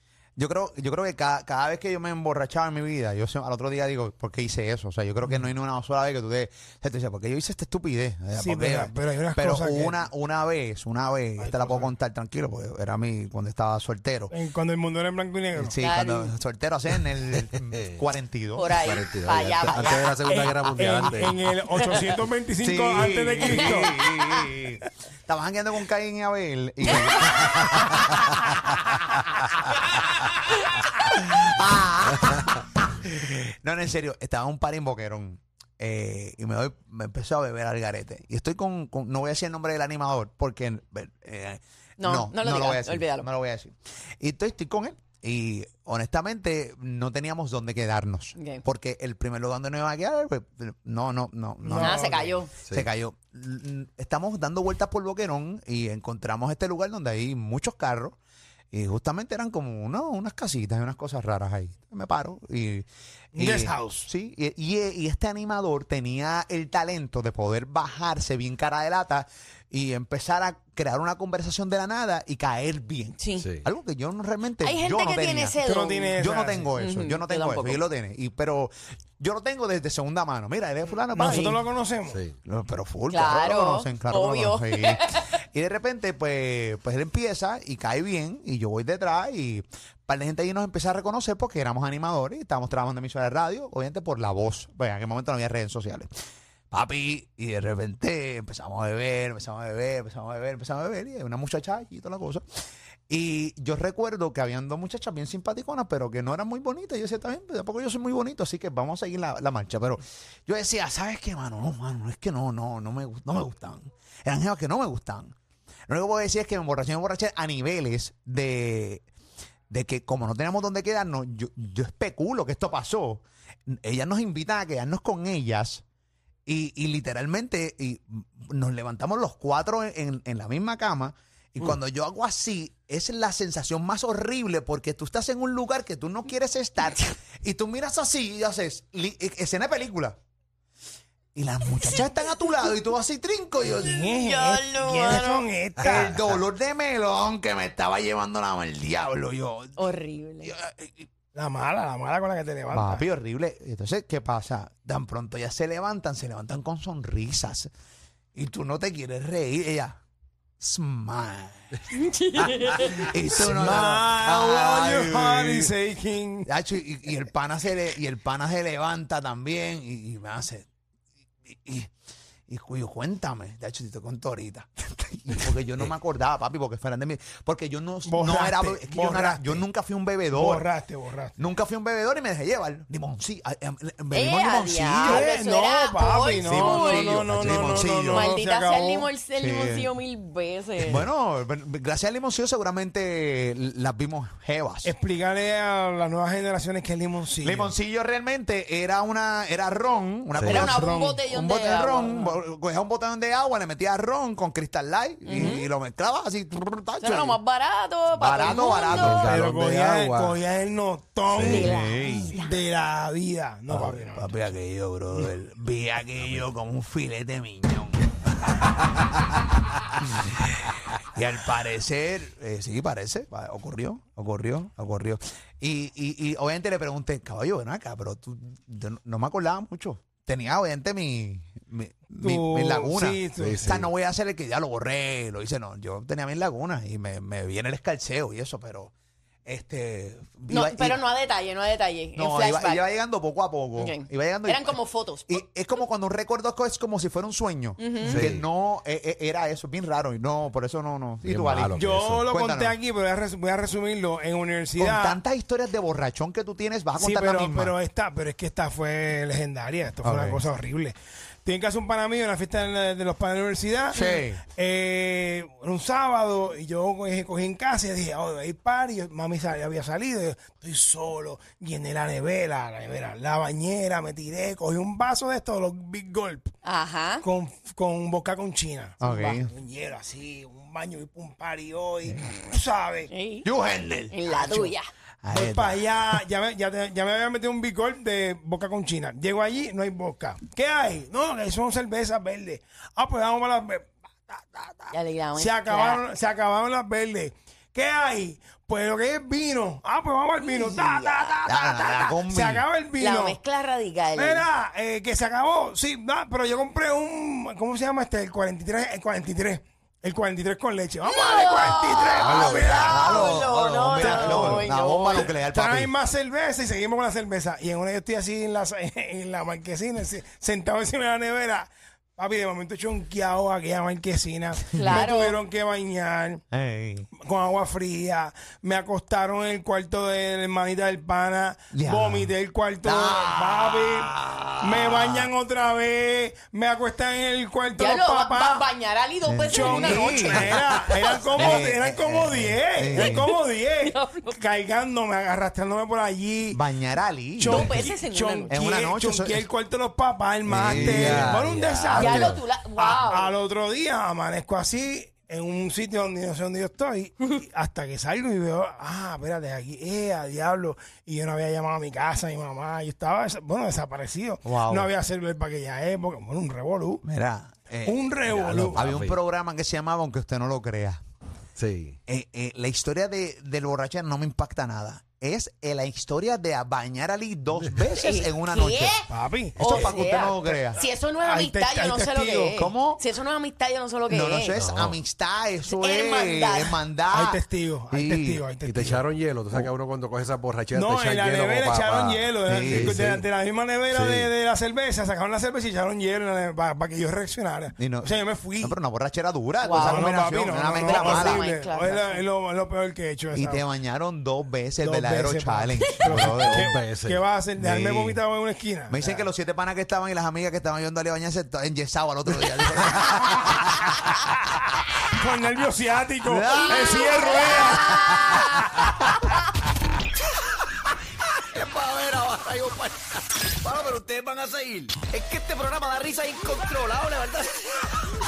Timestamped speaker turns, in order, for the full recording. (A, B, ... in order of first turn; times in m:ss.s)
0:00.4-0:14.3 A
0:08.3-0:10.1 B
0:11.4-0:11.9 B
0:14.3-0:15.8 B
0:15.6-0:18.7 A
0:15.8-0:16.3 C
0:17.4-0:18.0 D
0:18.6-0:20.2 C
0:18.8-0:21.4 D
0:19.7-0:20.0 A
0:20.2-0:24.0 B
0:22.6-0:28.1 A
0:23.5-0:23.9 C
0:26.9-0:27.5 C
0:31.0-0:58.2 A
0:42.0-0:43.3 C
0:48.4-0:48.6 C
0:51.6-0:52.3 B
0:51.8-0:52.5 C
0:58.7-1:15.6 A
1:03.4-1:04.1 B
1:13.2-1:13.5 C
1:13.4-1:13.7 D
1:14.6-1:16.2 C
1:15.6-1:16.7 B
1:16.2-1:21.6 A
1:16.8-1:17.8 C
1:21.1-1:22.2 B
1:21.2-1:21.5 C
1:22.1-1:22.4 D
1:22.4-1:36.1 A
1:23.1-1:25.3 C
1:36.7-1:42.4 A
1:43.1-1:55.3 A
1:55.9-1:59.0 A
1:59.7-2:05.8 A
2:06.5-2:20.2 A
2:21.4-2:24.0 A
2:23.7-2:26.1 B
2:24.1-2:25.5 C
2:25.8-2:29.9 A
2:29.8-2:30.5 C
2:30.4-2:31.1 A
2:31.3-2:33.1 B
2:32.7-2:37.7 A
2:38.4-2:40.0 A
2:40.6-2:41.7 A
2:41.9-2:43.1 C
2:42.7-2:45.7 A
2:43.3-2:46.5 B
2:46.5-2:50.7 A
2:51.5-2:51.9 A
2:52.5-3:00.7 A
2:58.0-2:59.6 B
3:00.3-3:01.4 B
3:01.4-3:05.3 A
3:04.1-3:11.1 C
3:05.0-3:09.1 B
3:06.4-3:08.3 A
3:09.4-3:09.9 A
3:10.8-3:14.9 A
3:14.8-3:17.8 B
3:17.4-3:27.4 A
3:20.4-3:20.7 D
3:20.4-3:22.4 C
3:20.7-3:21.2 B
3:25.3-3:25.7 C
3:27.0-3:29.3 C
3:28.2-3:29.4 A
3:28.5-3:30.4 D
3:29.2-3:31.8 B
3:31.4-3:32.3 A
3:31.4-3:32.5 C
3:32.3-3:34.3 B
3:33.7-3:38.5 A
3:40.1-3:40.4 A
3:41.0-3:58.9 A
3:52.2-3:53.8 B
3:53.4-3:53.9 D
3:59.5-4:01.0 A
4:00.5-4:02.8 C
4:02.2-4:12.8 A
4:03.8-4:05.4 C
4:07.8-4:08.3 C
4:08.0-4:08.4 D
4:11.2-4:12.3 D
4:11.7-4:15.2 B
4:14.8-4:17.7 A
4:17.0-4:36.5 B
4:20.0-4:20.4 A
4:23.9-4:24.4 A
4:36.6-4:37.3 C
4:37.2-4:43.1 B
4:39.0-4:39.5 A
4:39.0-4:39.4 C
4:43.1-4:43.5 C
4:43.4-4:44.7 A
4:44.1-4:44.9 C
4:45.2-4:46.2 A
4:45.3-5:03.4 B
4:54.9-4:56.0 C
5:00.4-5:01.4 C
5:01.4-5:02.6 A
5:03.0-5:04.5 C
5:04.2-5:13.3 B
5:11.0-5:15.3 C
5:12.2-5:15.9 A
5:14.0-5:26.4 B
5:24.7-5:25.4 C
5:26.5-5:27.1 A
5:27.2-5:38.7 B
5:31.7-5:32.3 A
5:32.8-5:35.3 A
5:37.8-5:41.5 C
5:39.3-5:43.3 A
5:39.5-5:46.6 B
5:43.0-5:44.4 C
5:46.5-5:47.8 A
5:47.4-6:07.0 B
5:47.5-5:48.5 C
5:48.5-5:49.5 A
5:50.5-5:51.4 A
5:50.5-5:52.4 D
5:51.9-5:53.4 C
6:04.4-6:04.9 A
6:07.0-6:11.0 A
6:07.8-6:08.8 B
6:08.3-6:09.2 D
6:11.6-6:12.0 D
6:12.1-6:19.0 A
6:17.5-6:17.8 D
6:18.0-6:19.1 C
6:19.1-6:22.6 B
6:19.6-6:20.8 A
6:19.6-6:24.6 C
6:22.6-6:23.0 A
6:24.1-6:28.5 A
6:24.6-6:25.0 D
6:25.7-6:26.8 C
6:27.1-6:29.1 B
6:28.6-6:33.3 D
6:30.7-6:38.8 B
6:32.4-6:33.0 A
6:33.9-6:34.3 D
6:37.8-6:41.4 A
6:39.6-6:40.1 C
6:39.7-6:43.6 B
6:40.8-6:42.2 C
6:43.3-6:46.7 A
6:44.8-6:49.3 B
6:46.3-6:47.3 D
6:47.6-6:48.2 A
6:48.9-6:53.9 A
6:55.1-6:57.9 B
6:56.2-6:58.5 A
6:56.9-6:58.2 C
7:01.6-7:02.9 E
7:03.6-7:07.4 E